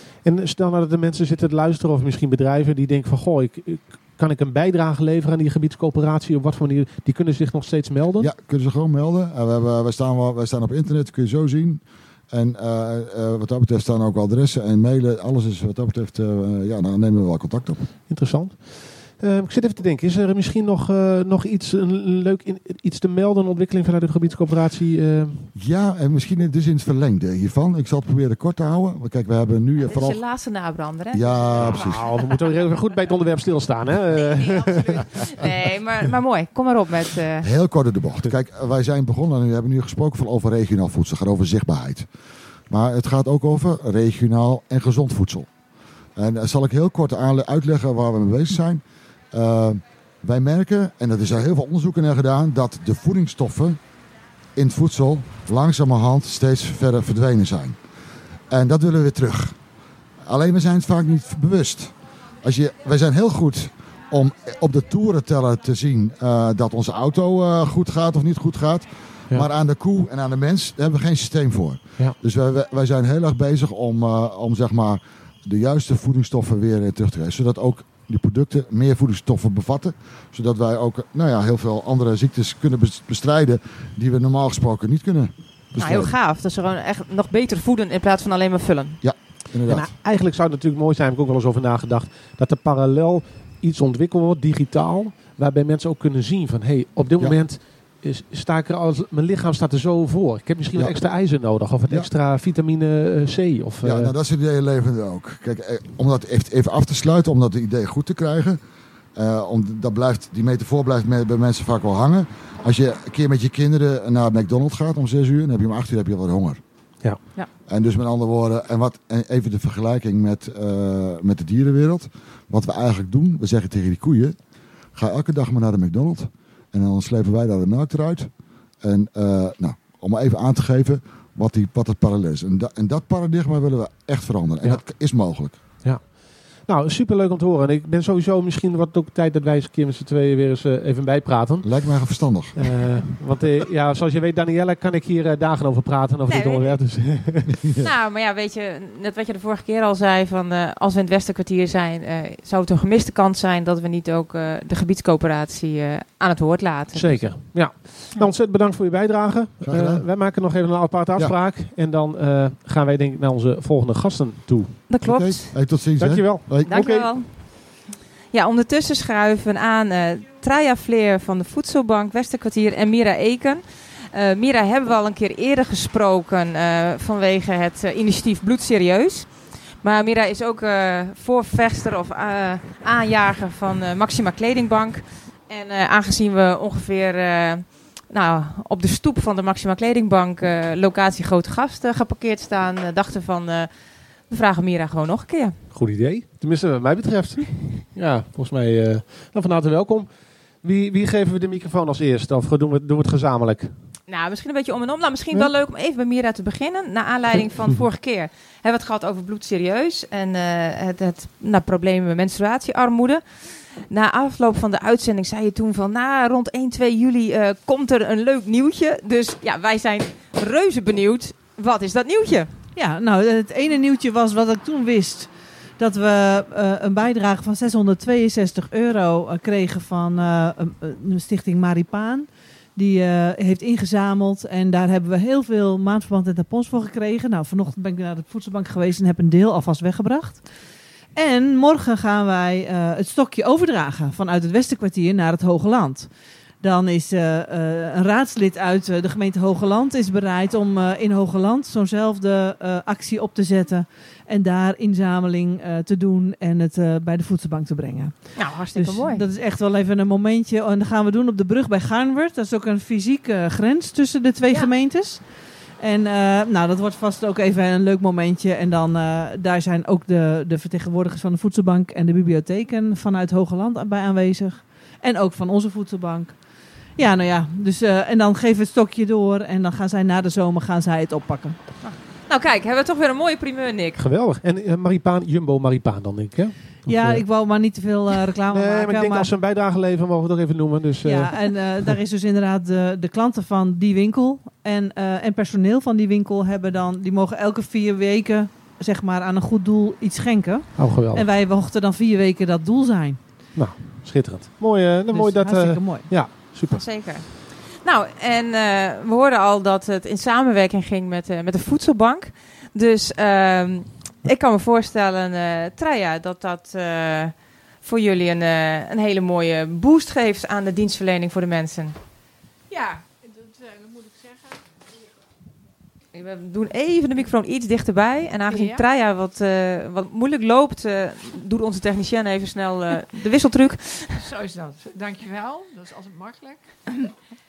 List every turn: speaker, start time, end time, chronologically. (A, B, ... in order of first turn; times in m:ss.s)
0:00.2-0:08.3 A
0:08.2-0:17.9 B
0:18.1-0:25.5 A
0:25.6-0:30.2 B
0:29.8-0:32.6 C
0:31.1-0:32.1 B
0:31.6-0:35.5 A
0:34.2-0:37.5 C
0:37.4-0:42.1 B
0:42.7-0:45.5 B
0:46.2-0:53.8 B
0:54.6-0:57.8 B
0:58.5-0:59.6 B
1:00.3-1:26.1 B
1:25.8-1:29.0 C
1:29.0-1:29.9 B
1:29.7-1:44.2 A
1:40.8-1:41.0 B
1:43.8-1:48.6 B
1:49.2-1:56.6 B
1:57.7-2:04.4 B
2:05.0-2:15.6 B
2:15.8-2:21.8 A
2:21.6-2:22.8 B
2:22.6-2:27.6 A
2:26.3-2:26.7 C
2:27.6-2:27.9 B
2:27.8-2:37.4 C
2:36.9-2:45.0 A
2:39.6-2:40.1 B
2:44.9-2:45.5 C
2:45.0-2:46.7 B
2:45.8-2:47.1 A
2:46.6-2:47.7 C
2:48.3-3:15.6 C
3:15.7-3:23.8 A
3:24.1-3:42.5 C
3:27.4-3:27.8 A
3:42.8-4:00.5 D
4:01.2-4:41.6 D
4:18.4-4:19.2 C
4:41.8-4:44.0 C
4:44.0-4:47.2 A
4:46.8-4:49.3 D
4:48.5-4:51.5 A
4:51.0-5:03.5 D
5:00.8-5:01.3 A
5:03.6-5:07.1 A
5:05.1-5:06.2 D
5:06.7-5:22.0 C
5:22.7-5:24.7 E
5:26.1-5:34.3 C
5:28.5-5:28.8 E
5:34.1-5:37.1 E